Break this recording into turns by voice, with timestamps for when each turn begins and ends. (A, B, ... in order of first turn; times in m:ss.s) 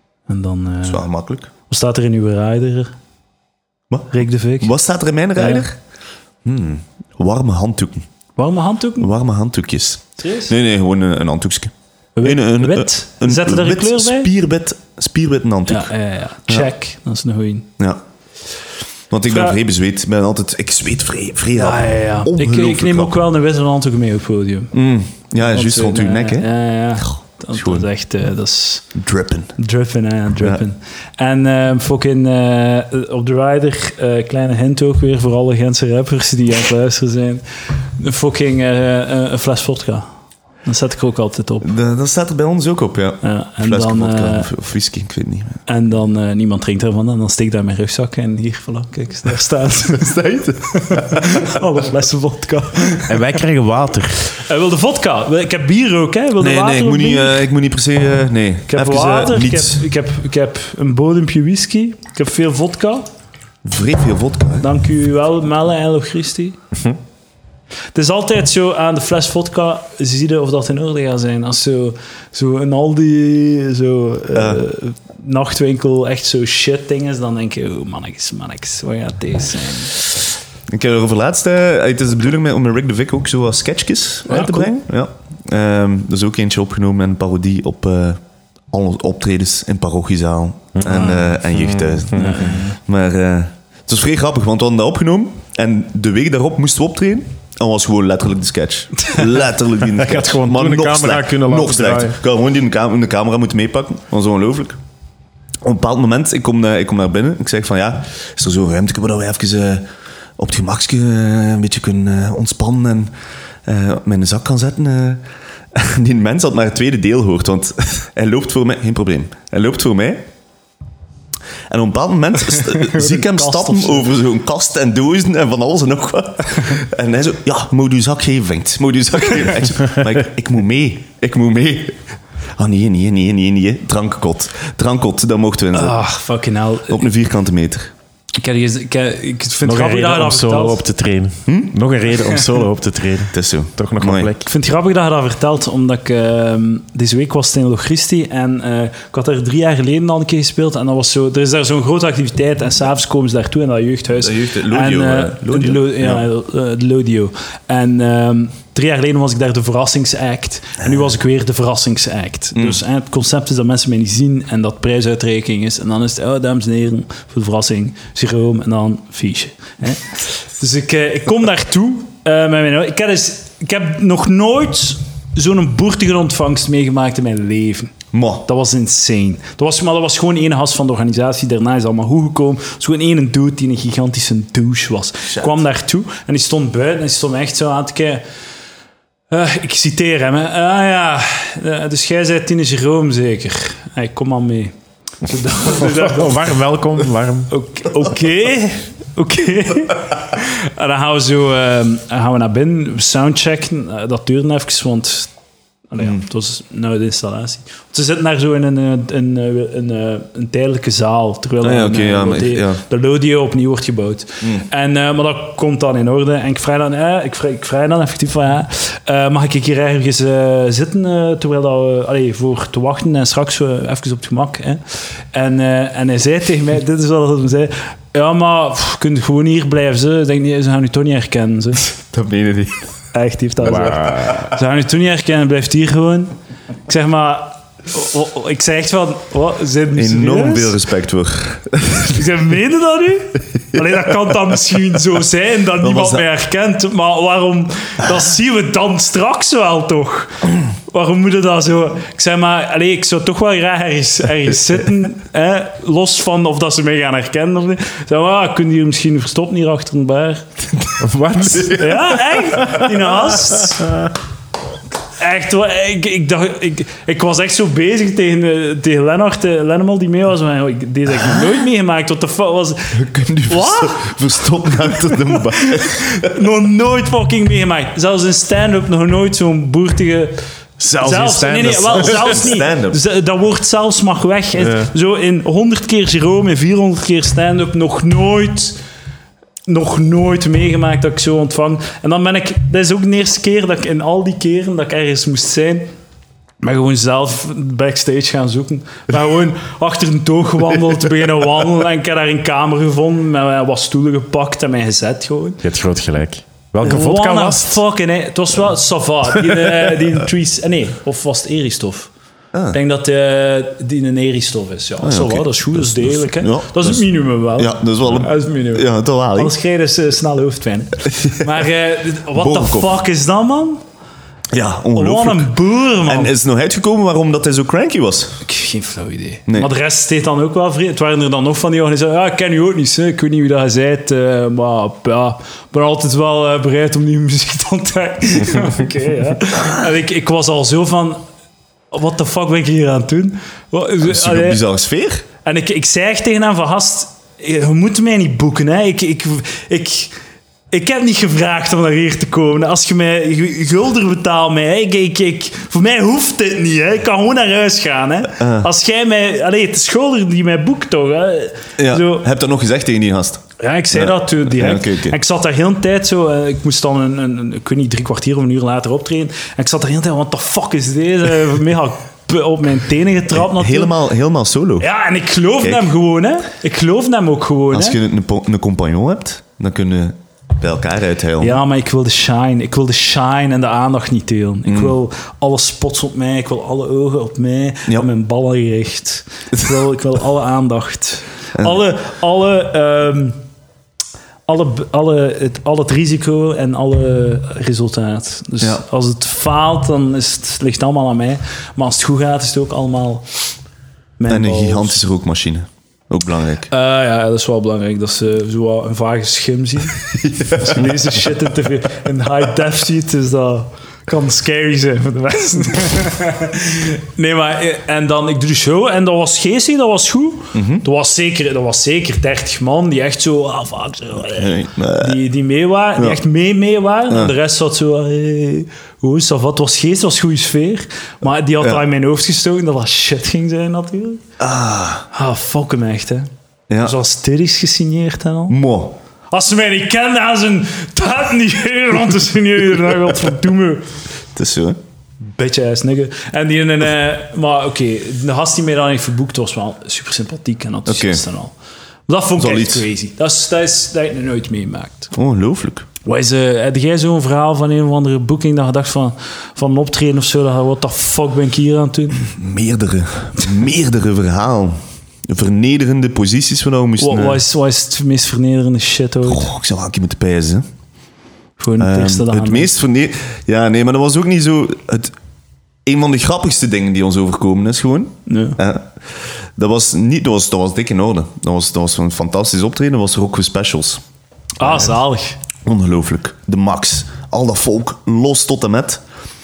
0:00.3-0:01.1 A
0:00.8-0:01.5 B
0:01.7-0:02.9 A
0:03.9-0:05.8 B
0:04.1-0:04.7 A
0:05.4-0:05.6 A
0:06.4-0:08.0 B
0:08.4-0:09.1 A
0:09.0-0:11.7 B
0:10.2-0:10.5 A
0:12.2-0:14.3 A
0:12.2-0:15.9 B
0:15.7-0:17.7 A
0:19.1-0:23.2 B
0:19.3-0:19.6 A
0:21.6-0:24.7 A
0:24.7-0:26.5 B
0:25.4-0:28.9 A
0:27.0-0:27.8 B
0:28.9-0:29.6 B
0:29.6-0:37.4 A
0:38.0-0:40.1 A
0:40.6-0:41.7 A
0:41.6-0:45.6 B
0:43.2-0:44.5 A
0:45.7-0:53.2 A
0:49.9-0:51.4 B
0:53.1-0:54.3 C
0:54.4-0:57.4 A
0:56.4-0:59.8 B
0:58.7-1:03.1 A
1:03.6-1:04.7 B
1:04.6-1:06.6 A
1:07.9-1:20.1 A
1:14.3-1:14.6 B
1:20.7-1:28.2 B
1:24.3-1:24.7 A
1:28.7-1:44.8 B
1:30.8-1:32.5 C
1:32.1-1:32.8 A
1:39.9-1:42.2 C
1:45.6-1:49.8 B
1:50.4-1:53.1 B
1:53.6-1:55.2 B
1:55.7-2:00.2 B
2:01.7-2:12.0 B
2:02.5-2:04.1 A
2:12.6-2:16.0 B
2:15.7-2:17.0 A
2:16.9-2:17.9 B
2:18.4-2:20.8 A
2:19.6-2:24.5 C
2:21.5-2:21.7 B
2:23.3-2:24.3 B
2:24.4-2:57.9 A
2:34.2-2:36.2 B
2:58.1-2:58.4 B
2:58.4-3:08.2 A
3:09.3-3:16.4 A
3:15.6-3:17.5 C
3:17.5-3:25.3 A
3:25.9-3:44.8 A
3:31.6-3:32.8 B
3:45.3-3:52.0 A
3:52.1-3:52.9 B
3:53.1-3:56.3 A
3:53.6-3:54.5 C
3:56.9-4:00.7 A
4:00.0-4:02.2 B
4:02.1-4:20.5 A
4:05.8-4:06.2 B
4:21.0-4:22.0 C
4:21.6-4:21.8 B
4:21.7-4:24.0 A
4:25.2-4:34.2 A
4:33.0-4:36.3 B
4:34.9-4:40.4 A
4:40.8-4:42.4 C
4:41.0-4:48.8 A
4:42.0-4:43.0 B
4:44.6-4:44.9 C
4:49.7-4:55.9 A
4:56.6-5:05.6 A
5:05.6-5:07.8 C
5:06.8-5:12.1 A
5:12.7-5:23.8 A
5:15.0-5:19.5 B
5:22.3-5:22.9 B
5:24.5-5:28.4 B
5:24.9-5:26.3 A
5:28.4-5:41.2 A
5:41.9-5:44.6 A
5:44.0-5:45.2 B
5:45.4-5:50.1 A
5:50.7-6:02.2 A
5:58.4-5:58.7 B
6:01.8-6:05.2 B
6:03.6-6:13.9 A
6:13.4-6:14.9 B
6:14.8-6:18.0 A
6:17.7-6:21.6 B
6:21.4-6:33.4 A
6:24.6-6:24.9 B
6:34.4-6:43.2 A
6:44.2-6:45.0 A
6:44.3-6:46.7 B
6:46.7-7:14.2 A
6:50.2-6:50.8 B
7:00.5-7:00.8 B
7:04.4-7:05.2 B
7:14.4-7:15.0 B
7:15.1-7:16.3 A
7:16.7-7:16.9 B
7:16.8-7:18.6 A
7:18.5-7:19.0 B
7:19.3-7:23.8 A
7:24.3-7:24.8 B
7:25.3-7:31.5 A
7:30.9-7:31.2 B
7:32.1-7:35.1 A
7:32.4-7:32.8 B
7:35.1-7:35.9 B
7:36.0-7:42.2 A
7:42.2-7:47.4 B
7:47.0-7:49.5 A
7:49.2-7:50.6 B
7:51.6-7:52.7 A
7:51.8-7:55.1 B
7:55.8-7:58.9 B
7:58.3-7:58.6 A
7:59.6-8:04.0 B
8:04.6-8:05.4 A
8:04.6-8:04.9 B
8:05.6-8:09.0 B